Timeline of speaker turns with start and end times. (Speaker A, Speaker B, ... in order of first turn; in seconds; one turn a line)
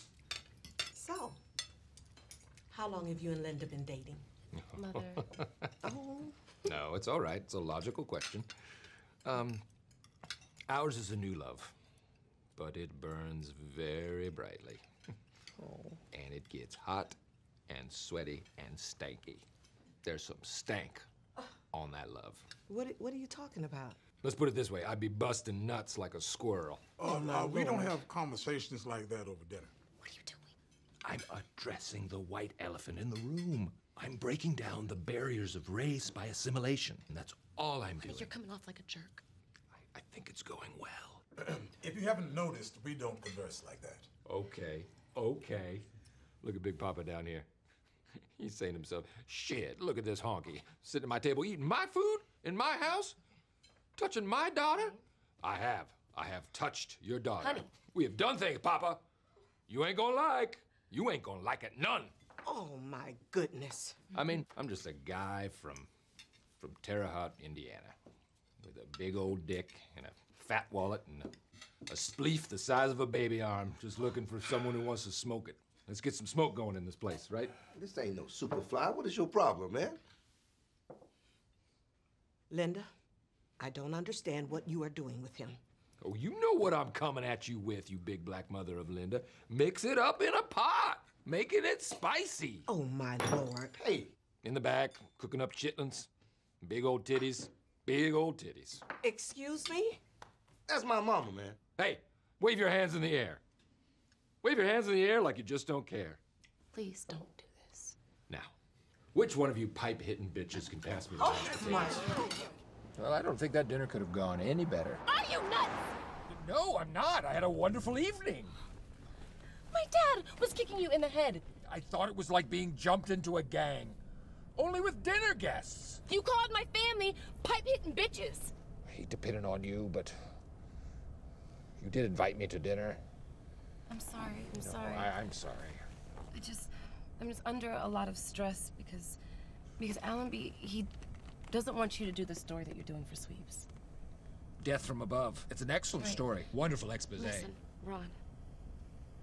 Speaker A: 0.9-1.4
Speaker A: 2.7-4.2
Speaker B: 4.5-5.7
Speaker C: 4.7-5.2
Speaker A: 5.8-6.5
Speaker B: 6.6-8.5
Speaker B: 9.2-9.6
Speaker B: 10.7-11.7
Speaker B: 12.6-14.8
Speaker B: 16.0-17.2
Speaker B: 17.7-19.4
Speaker B: 20.0-21.1
Speaker B: 21.7-22.4
Speaker A: 22.7-24.0
Speaker B: 24.2-27.0
Speaker D: 27.0-29.7
Speaker A: 27.0-28.0
Speaker C: 30.0-30.4
Speaker B: 31.0-38.3
Speaker C: 38.0-39.2
Speaker B: 39.7-41.2
Speaker D: 41.8-44.1
Speaker B: 44.2-45.8
Speaker B: 46.4-47.5
Speaker B: 48.4-53.2
Speaker B: 54.0-59.0
Speaker C: 57.4-57.6
Speaker B: 59.7-62.1
Speaker A: 62.4-64.0
Speaker B: 64.1-65.9
Speaker B: 66.6-67.9
Speaker B: 68.6-71.3
Speaker B: 71.9-77.6
Speaker E: 77.7-80.0
Speaker A: 82.5-82.9
Speaker A: 83.6-85.6
Speaker B: 86.0-92.7
Speaker A: 92.7-93.7
Speaker E: 93.7-94.1
Speaker B: 94.4-96.1
Speaker B: 96.6-98.8
Speaker A: 99.0-100.0
Speaker E: 100.7-101.6
Speaker B: 101.8-103.4
Speaker B: 104.4-106.2
Speaker C: 106.7-107.9
Speaker B: 109.1-112.2
Speaker A: 111.8-112.3
Speaker B: 113.0-115.0
Speaker C: 115.0-115.7
Speaker B: 116.3-118.5
Speaker C: 119.7-121.5
Speaker B: 121.5-124.0
Speaker B: 124.5-126.0
Speaker C: 126.1-128.5
Speaker B: 128.9-130.2
Speaker B: 131.8-133.0
Speaker C: 133.9-135.1
Speaker B: 134.5-135.8
Speaker C: 136.3-139.2
Speaker C: 139.8-140.9
Speaker C: 141.5-143.7
Speaker B: 144.6-147.5
Speaker C: 147.2-148.2